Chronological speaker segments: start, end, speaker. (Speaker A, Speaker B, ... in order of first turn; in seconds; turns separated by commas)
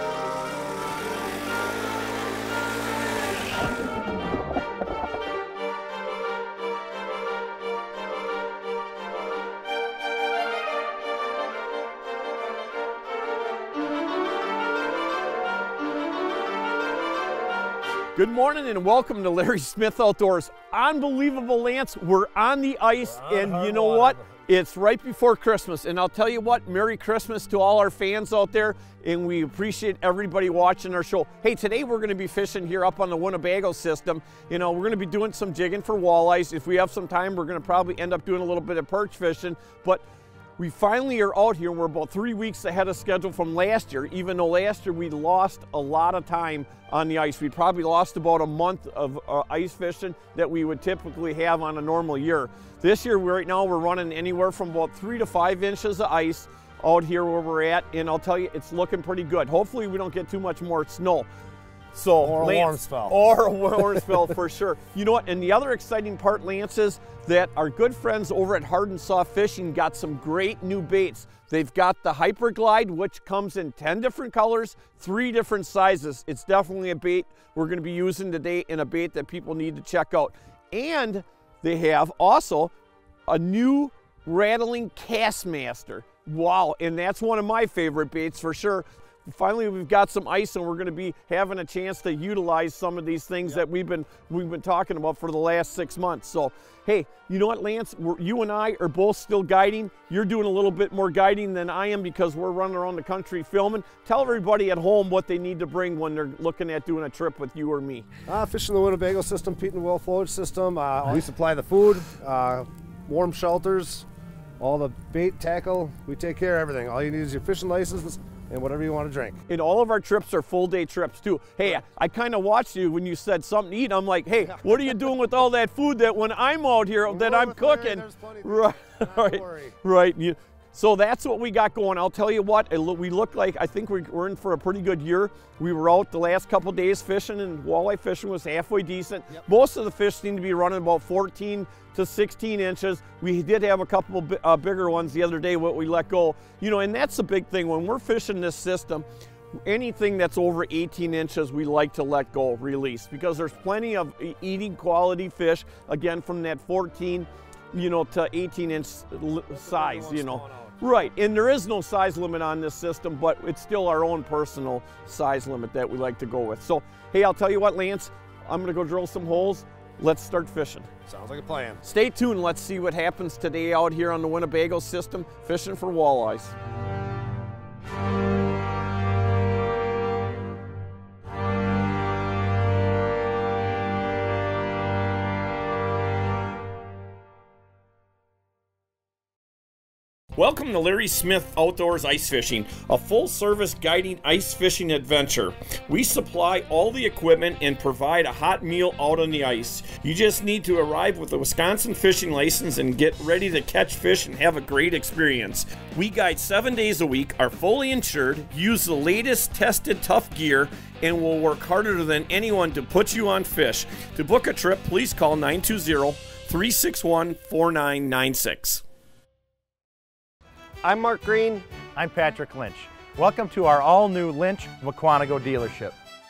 Speaker A: 18.2-40.0, Speaker B: 23.0-24.4, Speaker A: 40.6-61.3, Speaker A: 61.9-82.7, Speaker B: 62.2-63.2, Speaker A: 83.3-108.1, Speaker B: 108.3-114.1, Speaker B: 114.6-119.4, Speaker A: 119.5-149.1, Speaker B: 124.4-125.0, Speaker B: 127.1-129.8, Speaker A: 149.7-170.9, Speaker B: 159.5-160.8, Speaker B: 171.1-171.8, Speaker A: 171.8-176.5, Speaker A: 190.4-218.8, Speaker C: 220.8-226.0